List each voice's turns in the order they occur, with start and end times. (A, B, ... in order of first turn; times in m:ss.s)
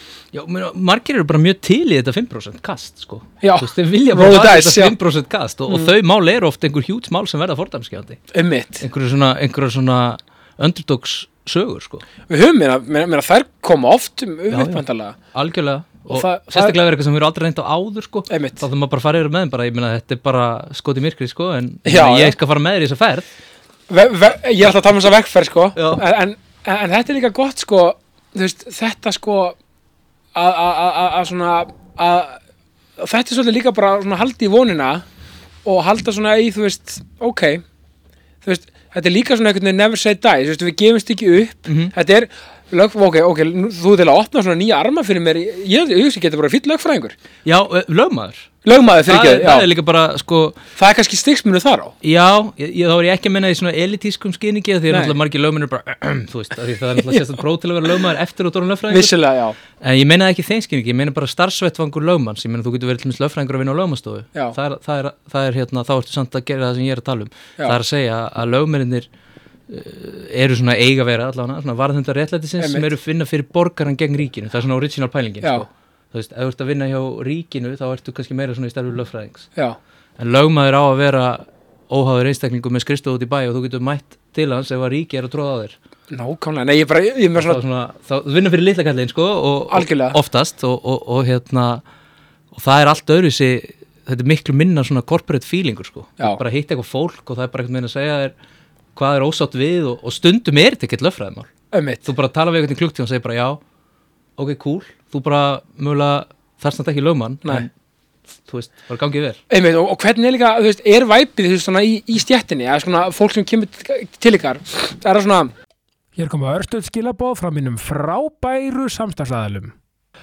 0:00.3-0:08.2 A
0:03.4-0:05.0 B
0:08.3-0:08.8 B
0:08.8-0:12.0 A
0:12.3-0:15.2 B
0:14.5-0:14.8 A
0:15.3-0:23.2 A
0:16.1-0:16.8 B
0:18.3-0:18.6 B
0:21.8-0:22.4 B
0:23.9-0:29.6 B
0:25.8-0:26.0 A
0:30.3-0:32.4 B
0:33.0-0:35.0 B
0:35.6-0:37.6 B
0:38.4-0:47.1 B
0:41.6-0:41.9 A
0:47.4-0:48.5 A
0:48.6-0:49.7 B
0:49.0-0:50.6 A
0:50.8-0:51.9 B
0:52.0-0:59.1 A
0:54.9-0:55.2 B
0:57.0-0:57.2 B
0:58.9-0:59.6 B
0:59.8-1:09.0 A
1:09.7-1:19.5 A
1:12.6-1:12.9 B
1:20.2-1:25.8 A
1:26.1-1:27.6 B
1:27.4-1:31.8 A
1:29.7-1:30.2 B
1:32.5-1:38.3 A
1:38.9-1:41.5 A
1:41.7-1:42.0 B
1:42.0-1:43.6 A
1:44.4-1:47.7 A
1:48.4-1:49.4 A
1:49.5-1:55.5 B
1:56.2-1:59.7 B